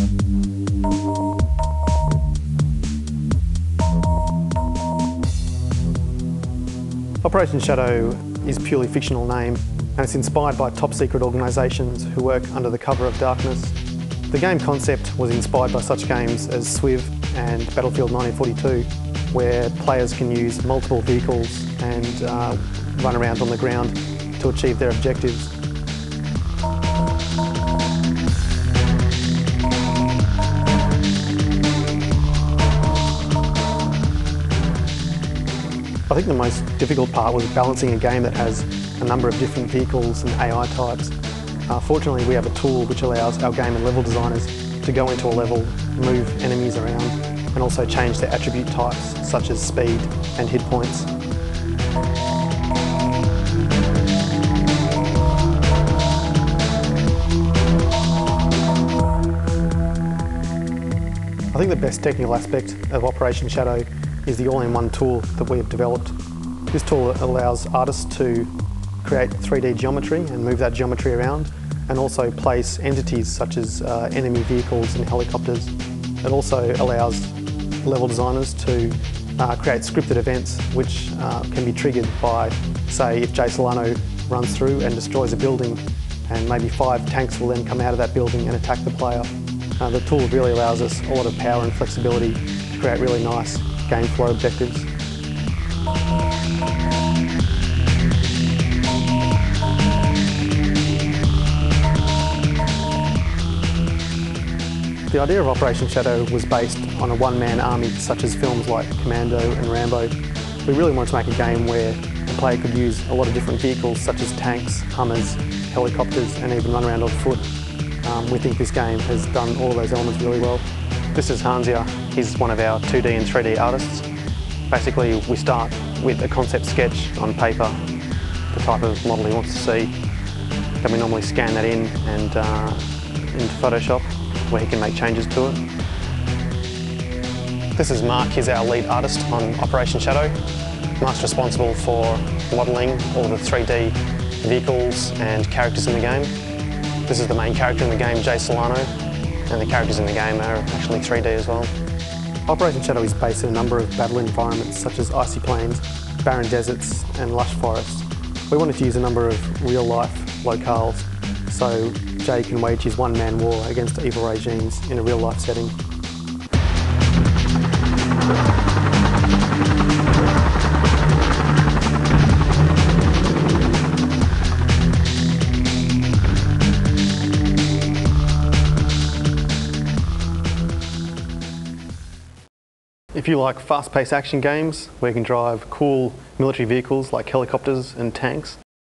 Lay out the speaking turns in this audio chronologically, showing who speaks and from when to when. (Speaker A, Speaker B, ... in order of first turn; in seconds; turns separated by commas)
Speaker A: 7.2-13.8, Speaker A: 14.3-25.5, Speaker A: 36.1-41.1, Speaker A: 41.7-51.1, Speaker A: 61.5-66.1, Speaker A: 66.7-68.5, Speaker A: 69.0-94.9, Speaker A: 105.1-110.1, Speaker A: 110.7-117.5, Speaker A: 118.0-124.1, Speaker A: 124.7-127.8, Speaker A: 128.5-129.9, Speaker A: 130.8-135.6, Speaker A: 137.7-140.4, Speaker A: 141.0-146.3, Speaker A: 147.1-148.9, Speaker A: 149.5-151.7, Speaker A: 152.5-165.8, Speaker A: 183.1-188.6